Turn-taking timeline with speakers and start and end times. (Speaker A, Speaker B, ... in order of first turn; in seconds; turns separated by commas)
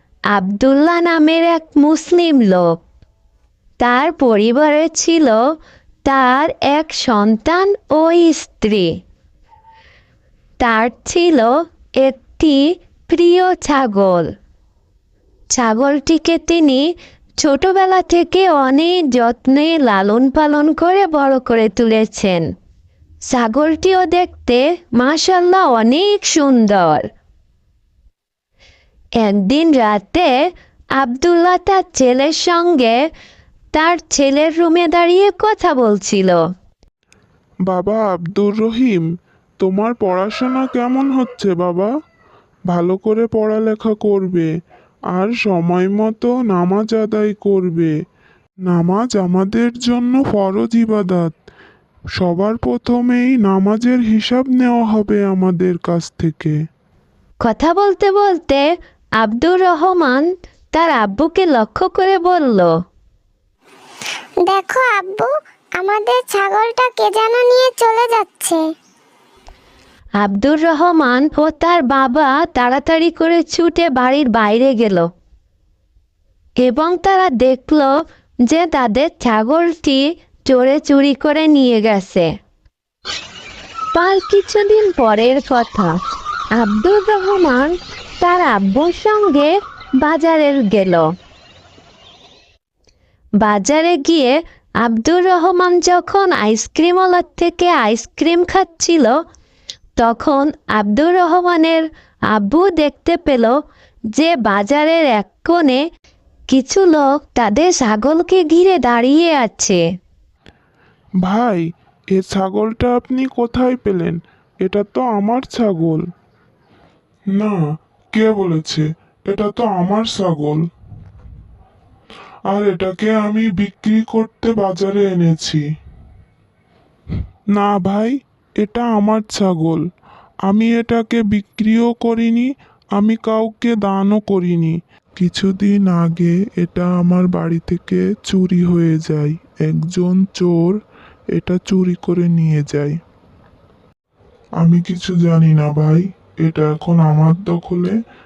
Speaker A: 0.3-2.8, Speaker A: 3.8-5.4, Speaker A: 6.0-9.0, Speaker A: 10.6-14.3, Speaker A: 15.5-16.8, Speaker A: 17.4-22.4, Speaker A: 23.3-27.0, Speaker A: 29.2-30.3, Speaker A: 31.0-33.0, Speaker A: 33.7-36.4, Speaker B: 37.7-39.0, Speaker B: 39.6-41.9, Speaker B: 42.7-44.5, Speaker B: 45.1-47.9, Speaker B: 48.7-51.3, Speaker B: 52.2-56.5, Speaker A: 57.4-58.6, Speaker A: 59.2-62.7, Speaker C: 64.4-68.6, Speaker A: 70.2-75.1, Speaker A: 76.6-77.9, Speaker A: 78.5-82.3, Speaker A: 83.9-86.0, Speaker A: 86.5-91.1, Speaker A: 93.4-99.2, Speaker A: 100.0-103.6, Speaker A: 104.1-105.8, Speaker A: 106.5-109.8, Speaker B: 111.2-111.6, Speaker B: 112.1-116.0, Speaker B: 118.1-120.6, Speaker B: 122.5-125.6, Speaker B: 127.5-129.8, Speaker B: 130.4-140.8, Speaker B: 141.3-142.9, Speaker B: 144.6-147.9